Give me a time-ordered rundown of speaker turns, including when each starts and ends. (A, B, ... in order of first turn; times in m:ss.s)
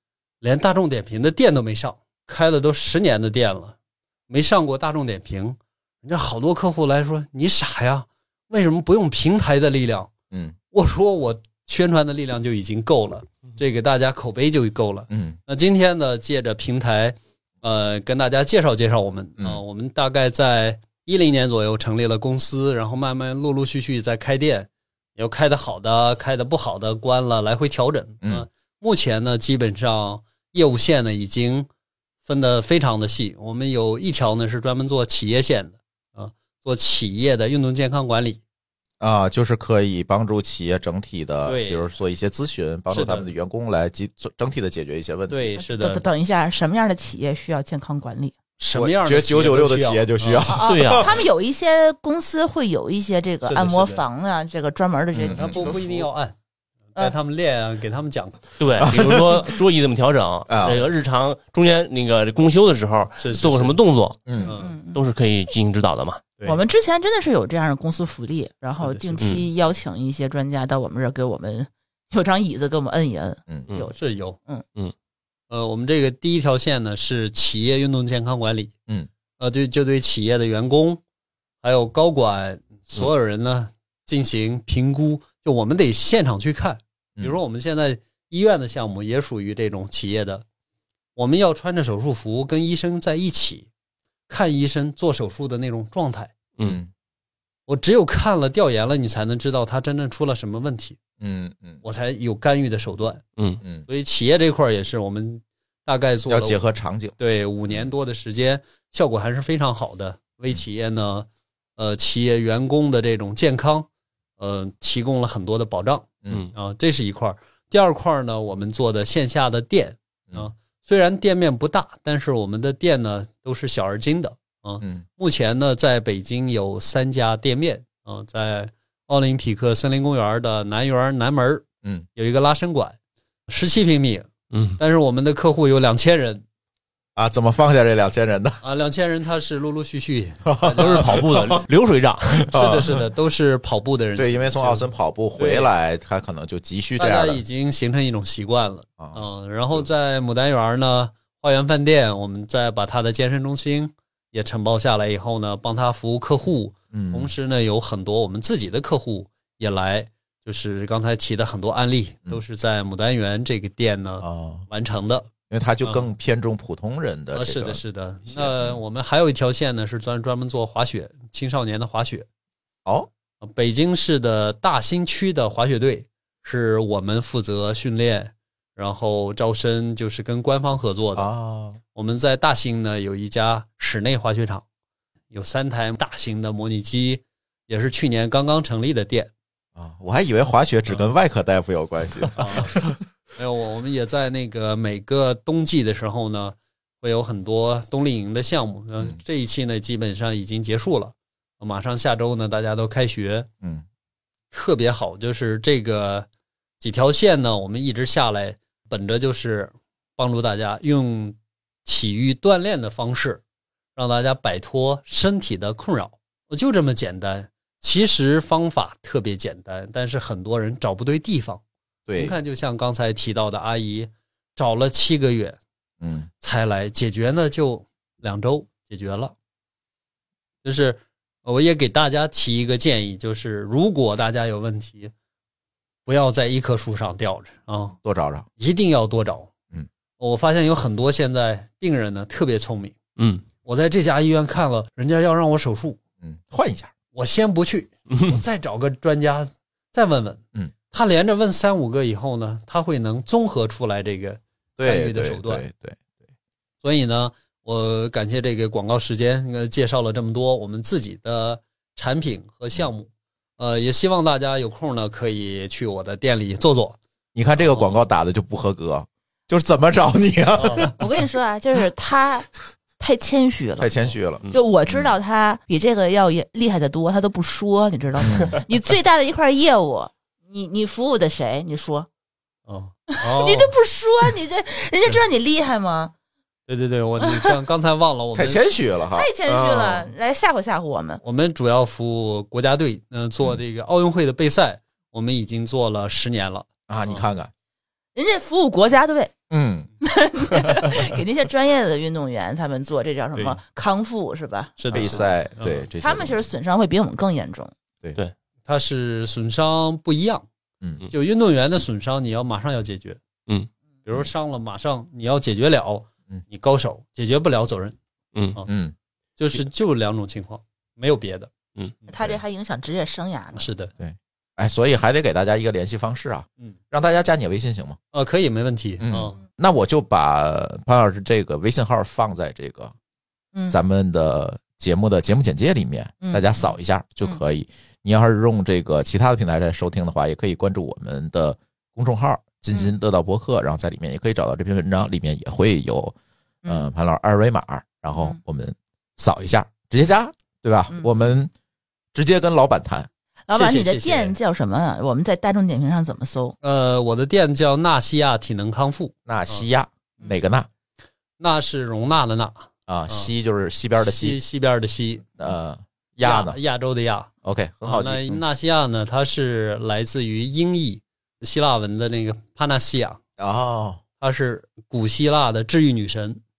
0:00.4-0:03.7 A
0:04.3-0:10.1 A
0:10.3-0:10.6 B
0:10.7-0:31.7 A
0:15.1-0:15.4 B
0:32.2-0:38.4 A
0:39.0-0:45.5 B
0:41.4-0:41.9 A
0:42.9-0:43.3 A
0:45.3-0:46.0 A
0:45.6-0:48.4 C
0:48.6-0:50.6 A
0:48.7-0:51.1 B
0:50.5-0:55.8 C
0:50.7-0:51.1 D
0:53.4-0:54.0 A
0:55.1-0:55.7 B
0:55.3-0:56.4 A
0:56.9-0:58.6 A
0:58.6-1:06.3 D
0:58.8-0:59.5 B
1:00.5-1:00.8 B
1:03.2-1:03.8 A
1:04.3-1:04.5 B
1:04.4-1:05.0 C
1:04.4-1:04.7 A
1:06.4-1:13.9 C
1:08.8-1:09.4 A
1:13.9-1:14.4 A
1:15.5-1:18.7 A
1:19.4-1:21.0 A
1:21.6-1:30.4 A
1:31.2-1:33.7 A
1:34.3-1:36.3 A
1:36.6-1:36.9 B
1:37.7-1:41.0 A
1:41.2-1:41.8 B
1:41.8-1:43.2 A
1:43.9-1:46.6 A
1:46.3-1:47.2 B
1:47.2-1:53.9 A
1:54.4-2:13.0 A
2:13.5-2:16.4 A
2:14.5-2:14.8 D
2:17.2-2:18.6 B
2:18.6-2:21.2 A
2:20.4-2:21.6 B
2:20.8-2:22.5 D
2:22.4-2:23.0 B
2:22.5-2:25.7 A
2:24.2-2:27.4 B
2:27.0-2:45.3 A
2:29.0-2:29.8 B
2:36.9-2:37.3 B
2:44.2-2:44.7 B
2:45.5-2:48.8 B
2:47.3-2:52.2 A
2:53.4-3:01.3 A
3:01.1-3:01.8 B
3:01.9-3:04.6 A
3:05.3-3:09.3 A
3:09.8-3:12.9 B
3:12.3-3:12.8 A
3:13.4-3:23.5 A
3:24.5-3:26.3 A
3:26.8-3:33.4 A
3:33.9-3:41.6 A
3:42.1-3:42.4 B
3:42.2-3:45.6 A
3:46.0-3:46.3 B
3:46.4-3:49.3 A
3:50.6-3:55.1 A
3:56.0-3:58.0 A
3:58.0-3:58.5 B
3:58.6-3:59.5 A
4:00.2-4:02.9 A
4:03.2-4:03.4 D
4:03.6-4:06.0 A
4:06.2-4:06.9 B
4:07.1-4:15.6 A
4:08.1-4:08.4 D
4:14.8-4:16.0 B
4:16.8-4:27.0 A
4:27.3-4:30.9 B
4:27.6-4:28.0 A
4:30.6-4:30.9 A
4:31.0-4:32.5 C
4:33.0-4:42.1 C
4:33.8-4:35.1 B
4:38.2-4:38.6 B
4:42.7-4:43.8 A
4:43.2-4:46.1 C
4:46.7-4:48.6 A
4:47.2-4:47.6 C
4:48.3-4:50.1 B
4:49.1-4:51.2 C
4:51.2-4:57.2 A
4:56.9-4:57.5 B
4:58.1-4:59.3 C
4:59.5-4:59.9 B
5:00.0-5:05.3 C
5:03.3-5:03.6 A
5:04.8-5:05.9 A
5:04.9-5:06.3 B
5:06.0-5:07.7 C
5:08.6-5:10.4 A
5:10.8-5:11.1 B
5:11.1-5:13.2 A
5:14.0-5:18.0 A
5:18.7-5:18.9 B
5:19.4-5:21.5 A
5:22.1-5:23.7 C
5:23.5-5:23.9 A
5:24.0-5:28.0 B
5:28.1-5:29.4 A
5:29.0-5:32.9 B
5:33.7-5:46.1 B
5:36.2-5:37.4 C
5:46.6-5:46.9 C
5:46.6-5:51.5 B
5:48.1-5:48.4 C
5:50.9-5:51.2 C
5:52.1-5:53.1 B
5:53.5-5:56.6 C
5:53.5-5:54.4 A
5:56.6-5:59.7 A
5:59.2-6:00.7 B
6:01.4-6:03.3 A
6:02.9-6:04.4 B
6:04.0-6:05.4 A
6:05.4-6:06.6 B
6:06.2-6:07.3 A
6:07.4-6:08.4 B
6:07.8-6:13.2 A
6:13.4-6:14.0 B
6:14.2-6:16.4 A